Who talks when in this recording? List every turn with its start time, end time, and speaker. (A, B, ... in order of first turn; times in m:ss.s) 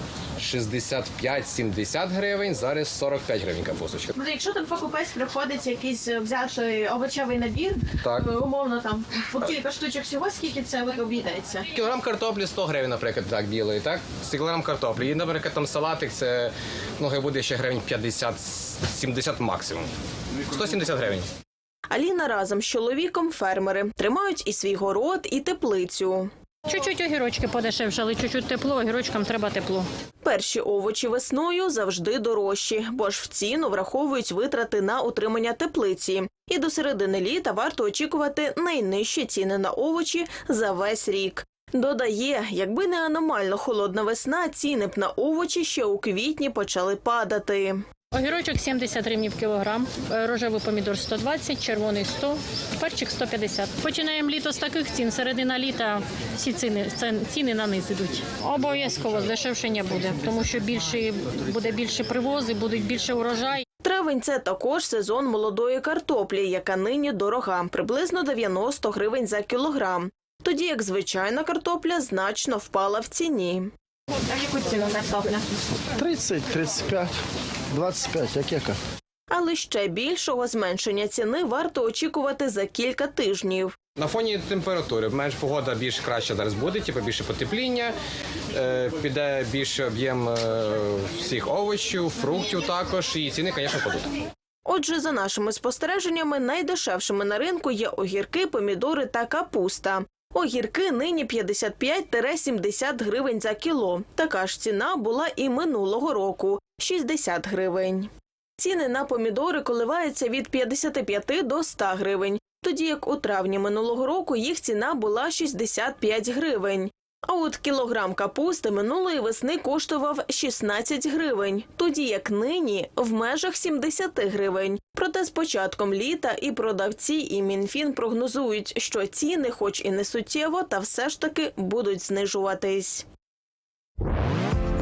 0:00.4-0:04.1 A
0:04.2-0:11.6 B
0:07.9-0:08.4 A
0:11.6-0:19.9 A
0:20.5-0:21.3 A
0:21.9-0:26.3 C
0:26.7-0:29.9 D
0:30.2-0:47.8 C
0:48.1-1:03.6 D
1:03.8-1:13.7 C
1:14.3-1:15.4 B
1:15.9-1:17.1 E
1:17.7-1:18.8 E
1:19.3-1:23.8 C
1:24.0-1:28.0 A
1:28.5-1:34.1 A
1:34.6-2:13.0 C